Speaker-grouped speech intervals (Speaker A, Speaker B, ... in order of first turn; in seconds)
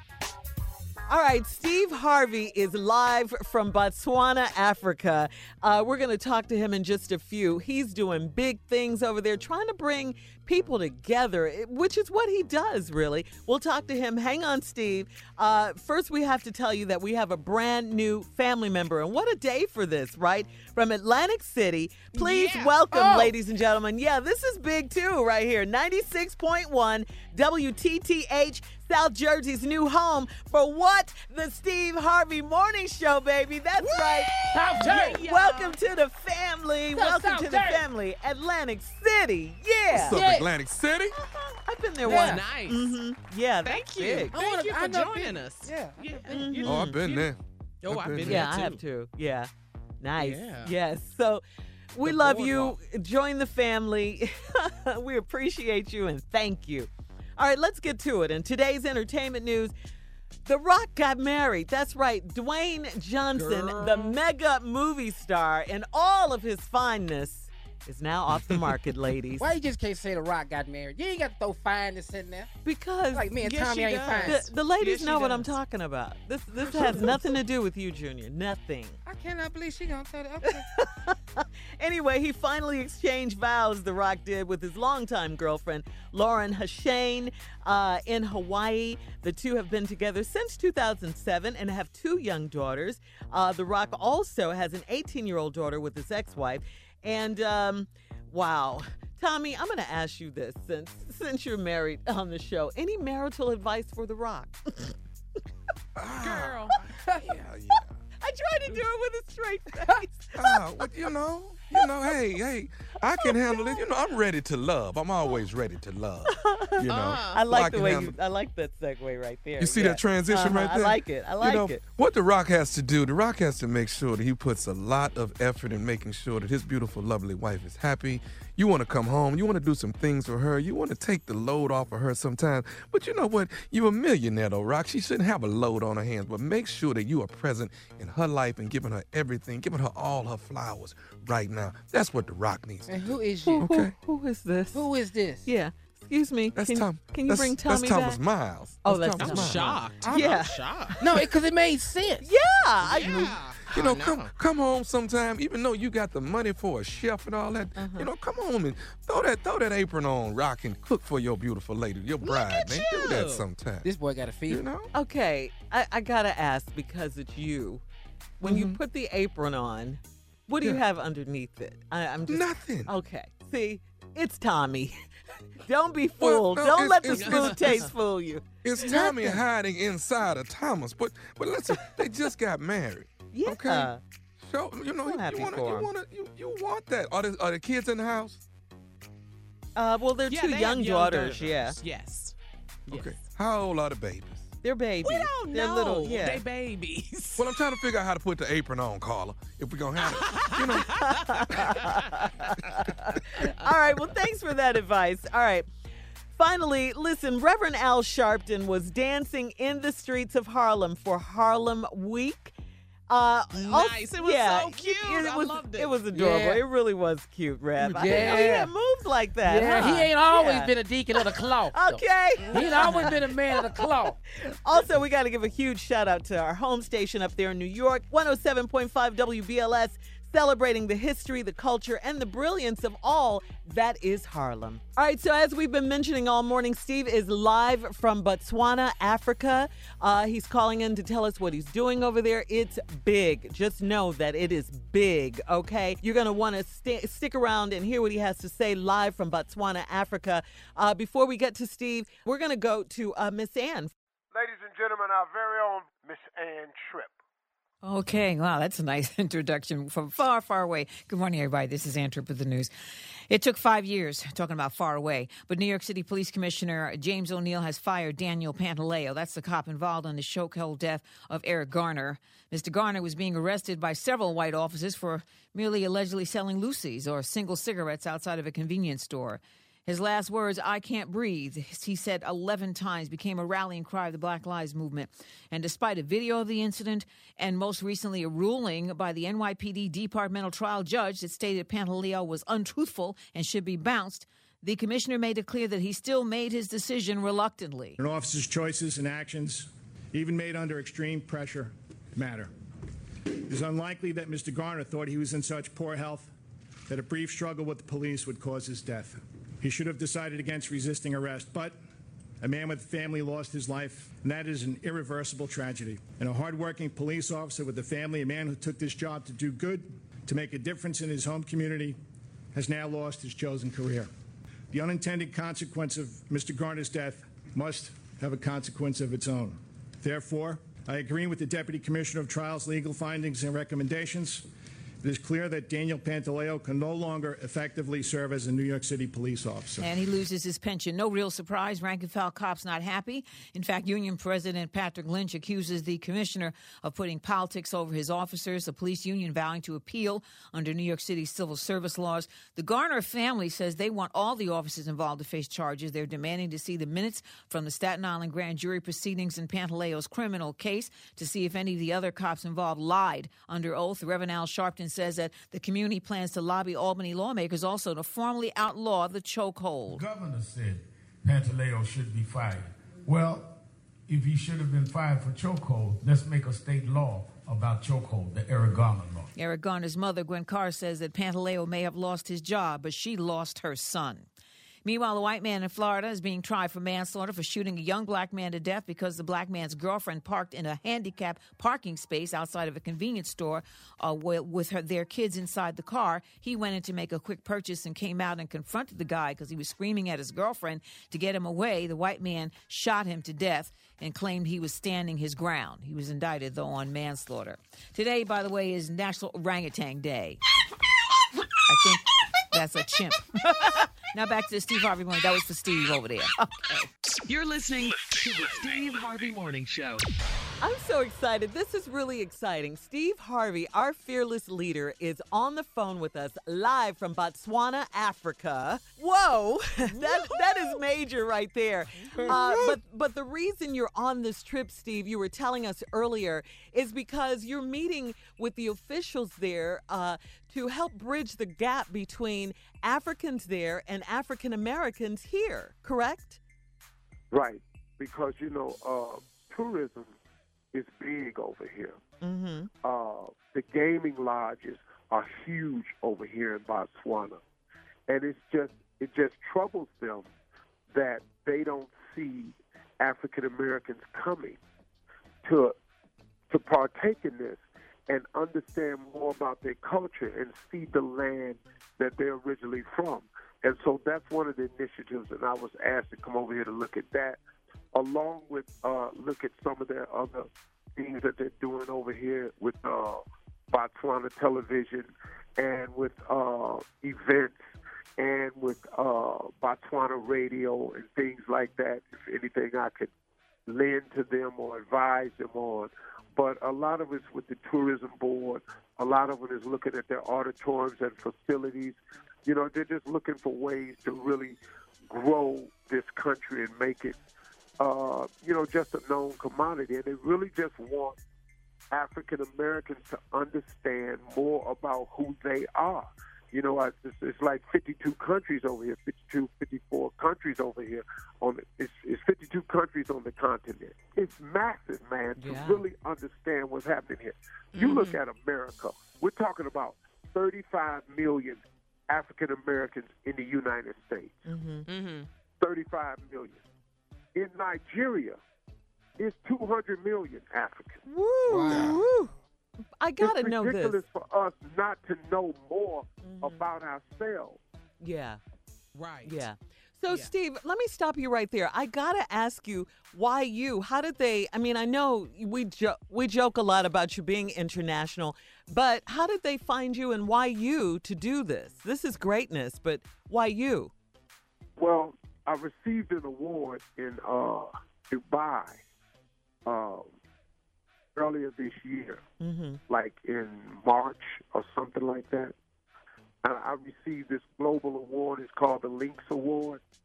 Speaker A: 1.1-34.4, 35.2-40.2, 41.6-44.3, 46.3-46.9, 48.2-49.5, 50.0-51.4, 51.9-59.7, 60.5-69.5, 72.6-73.3, 74.2-79.0, 80.5-104.5, 108.2-110.5, 113.2-113.8, 116.3-121.8, 143.5-144.9, 145.4-148.2, 148.8-150.8, 152.2-153.4, 157.8-158.1, 164.9-167.8, 168.4-175.0, 175.6-179.4, 183.3-184.0, 185.0-185.9, 189.8-191.8, 194.6-196.4, 201.0-205.7, 206.3-212.5, 213.1-223.8, 224.4-253.9, 420.6-446.4, 452.2-452.7, 525.4-525.8, 534.5-534.9, 541.0-542.3, 543.0-544.0, 546.2-546.6, 548.0-548.4, 549.2-563.9, 572.4-572.8
Speaker B: 22.1-22.7, 33.8-35.8, 42.0-43.0, 43.6-48.8, 50.2-50.7, 52.0-52.8, 63.5-63.8, 73.4-75.5, 106.2-106.8, 116.9-117.4, 149.2-151.0, 152.8-154.3, 162.2-163.4, 177.1-177.9, 190.3-192.3, 192.9-193.1, 195.0-197.5, 200.0-201.9, 213.5-216.0, 217.9-218.4, 222.4-223.2, 429.9-430.8, 432.0-432.3, 527.7-528.2, 534.9-535.3, 548.9-549.4
Speaker C: 22.9-23.3, 34.5-35.2, 36.9-37.8, 40.1-40.5, 42.0-42.4, 44.3-46.6, 69.4-72.5, 73.1-74.5, 79.0-80.7, 142.9-143.6, 144.7-145.4, 151.0-152.3, 163.8-164.6, 216.1-216.6, 218.0-218.7, 219.4-224.2
Speaker D: 39.9-41.1, 46.6-48.5, 63.4-64.0, 106.0-106.6, 107.2-107.9, 110.3-118.1, 119.6-143.9, 146.6-150.4, 153.0-163.9, 164.5-164.9, 168.4-168.8, 172.3-172.9, 176.2-177.9, 178.6-188.4, 192.9-194.5, 197.4-201.5, 432.3-432.8, 541.5-542.0
Speaker E: 254.3-257.1, 447.3-450.1, 450.7-452.0, 452.8-457.4, 458.1-460.3, 460.9-464.6, 465.4-465.7, 466.5-477.4, 477.9-487.6, 488.2-493.1, 493.7-507.2, 507.8-511.2, 511.9-534.4, 535.6-536.6, 537.3-538.4, 539.2-541.0, 543.2-547.6, 564.8-568.8, 569.6-570.1, 571.1-572.2, 572.9-575.5, 576.4-579.8
Speaker F: 257.8-262.7, 263.3-297.9, 339.8-370.0, 379.4-384.3, 384.8-410.4, 411.6-416.8
Speaker G: 298.0-302.5, 303.4-306.3, 306.9-311.8, 312.4-322.0, 322.5-324.1, 324.7-334.5, 335.0-339.9
Speaker H: 369.9-379.3
Speaker I: 417.3-420.0